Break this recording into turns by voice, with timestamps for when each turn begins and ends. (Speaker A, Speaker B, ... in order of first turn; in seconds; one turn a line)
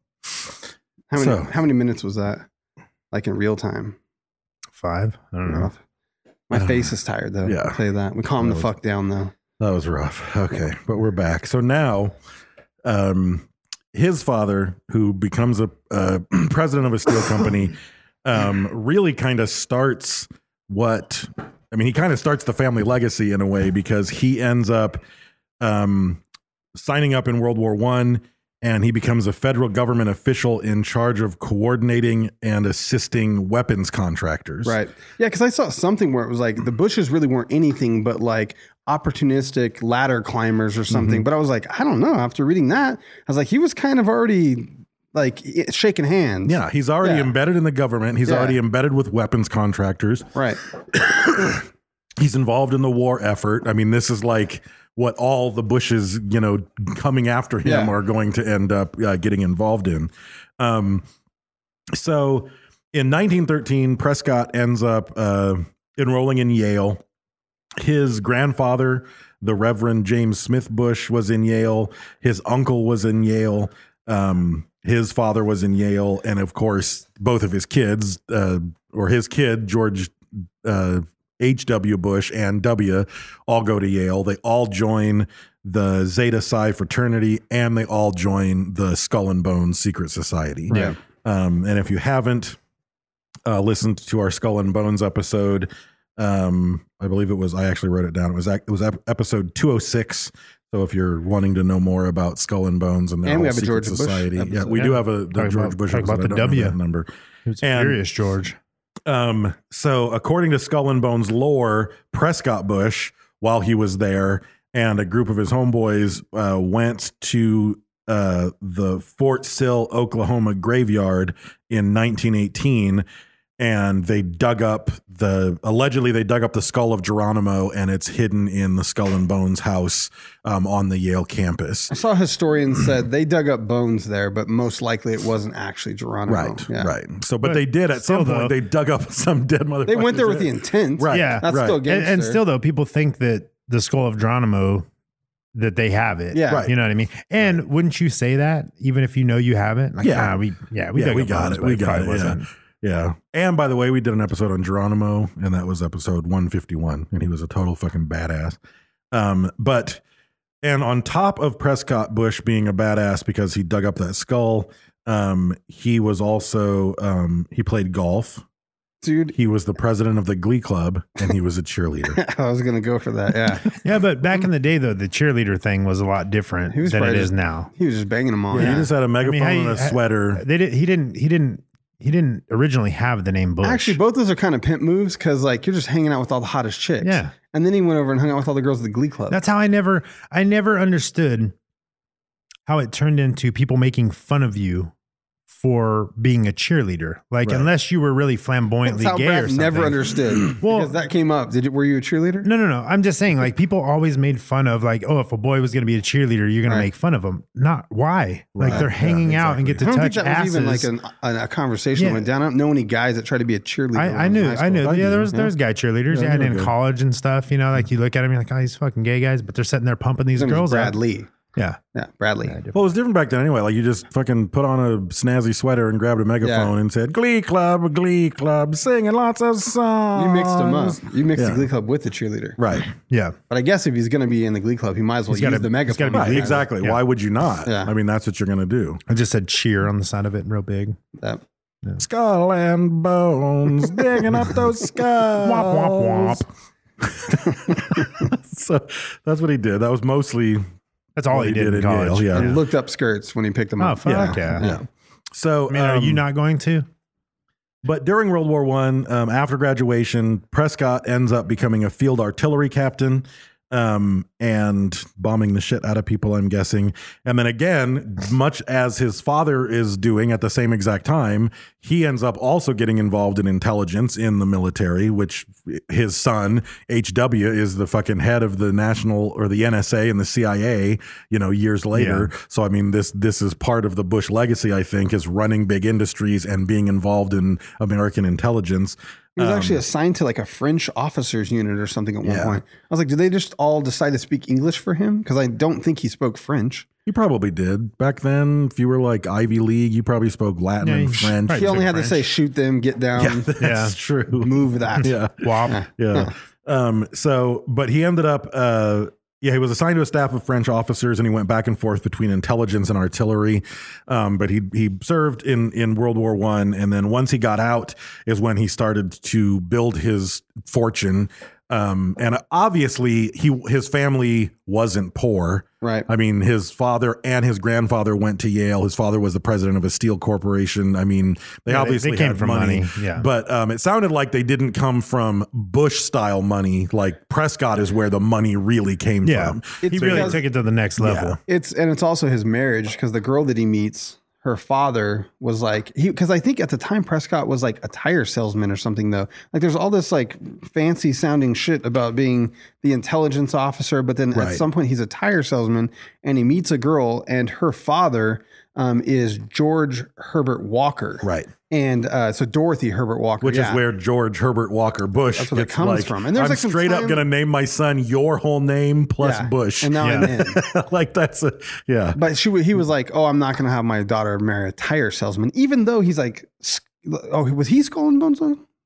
Speaker A: 1.1-2.5
Speaker B: 1.1-1.5
Speaker A: 3.1-4.0
Speaker C: 4.8-5.7
Speaker A: 5.4-5.8
Speaker A: 6.5-9.3
Speaker B: 6.5-7.8
Speaker B: 8.4-8.7
Speaker B: 9.6-12.2
Speaker B: 12.8-25.0
Speaker B: 25.6-26.2
Speaker B: 26.7-34.8
Speaker A: 34.6-47.3
Speaker B: 40.9-41.3
Speaker B: 46.4-50.3
Speaker A: 48.2-48.6
Speaker A: 50.3-50.6
Speaker B: 50.9-51.6
Speaker B: 52.2-61.0
Speaker A: 57.6-57.9
Speaker B: 61.9-67.0
Speaker B: 67.8-92.6
Speaker A: 90.7-91.0
Speaker B: 93.5-107.1
Speaker A: 103.2-104.9
Speaker C: 104.8-106.8
Speaker C: 107.5-108.6
Speaker B: 107.6-108.0
Speaker B: 109.0-123.0
Speaker B: 123.6-131.9
Speaker A: 131.9-136.9
Speaker B: 136.3-141.8
Speaker C: 137.4-138.6
Speaker A: 139.8-142.4
Speaker C: 141.1-144.8
Speaker C: 145.5-152.4
Speaker A: 146.3-146.7
Speaker B: 150.0-150.4
Speaker B: 150.9-158.6
Speaker B: 159.1-160.0
Speaker B: 160.6-168.4
Speaker A: 169.0-169.3
Speaker B: 169.3-172.2
Speaker A: 172.2-173.7
Speaker C: 173.8-177.7
Speaker A: 176.7-178.9
Speaker B: 178.5-180.4
Speaker C: 178.6-184.0
Speaker A: 183.6-189.4
Speaker C: 187.0-187.3
Speaker C: 189.3-191.5
Speaker C: 192.7-194.9
Speaker C: 195.5-200.0
Speaker A: 198.8-202.5
Speaker C: 200.6-200.9
Speaker C: 202.4-210.9
Speaker B: 208.5-209.9
Speaker A: 209.8-215.5
Speaker C: 212.0-212.2
Speaker C: 213.9-220.9
Speaker B: 214.8-215.3
Speaker B: 216.1-216.7
Speaker A: 220.4-221.3
Speaker A: 221.9-222.6
Speaker C: 222.4-222.8
Speaker B: 222.7-231.7
Speaker A: 226.4-226.7
Speaker A: 230.1-232.6
Speaker B: 232.6-232.9
Speaker C: 233.1-233.3
Speaker A: 233.5-236.7
Speaker C: 235.3-237.0
Speaker B: 236.1-239.0
Speaker A: 237.6-237.9
Speaker C: 239.1-241.0
Speaker B: 242.0-246.4
Speaker C: 245.4-246.4
Speaker B: 247.0-250.7
Speaker A: 247.7-248.1
Speaker C: 251.2-252.6
Speaker B: 251.3-252.6
Speaker A: 252.3-254.8
Speaker C: 253.8-254.7
Speaker B: 254.1-256.2
Speaker C: 255.7-256.9
Speaker B: 257.8-289.8
Speaker C: 281.9-282.3
Speaker A: 289.4-296.9
Speaker B: 292.2-292.6
Speaker B: 297.1-301.9
Speaker C: 300.8-302.2
Speaker A: 301.5-303.5
Speaker B: 303.2-340.4
Speaker C: 303.6-303.9
Speaker A: 304.4-305.1
Speaker C: 305.4-305.8
Speaker A: 305.7-306.3
Speaker A: 325.8-326.1
Speaker C: 331.7-333.3
Speaker C: 339.2-341.4
Speaker A: 339.8-340.4
Speaker B: 341.0-341.4
Speaker A: 341.5-363.8
Speaker B: 354.3-354.6
Speaker B: 361.2-361.5
Speaker B: 363.4-372.2
Speaker A: 365.4-367.2
Speaker A: 369.2-370.6
Speaker C: 370.0-370.3
Speaker A: 372.1-378.6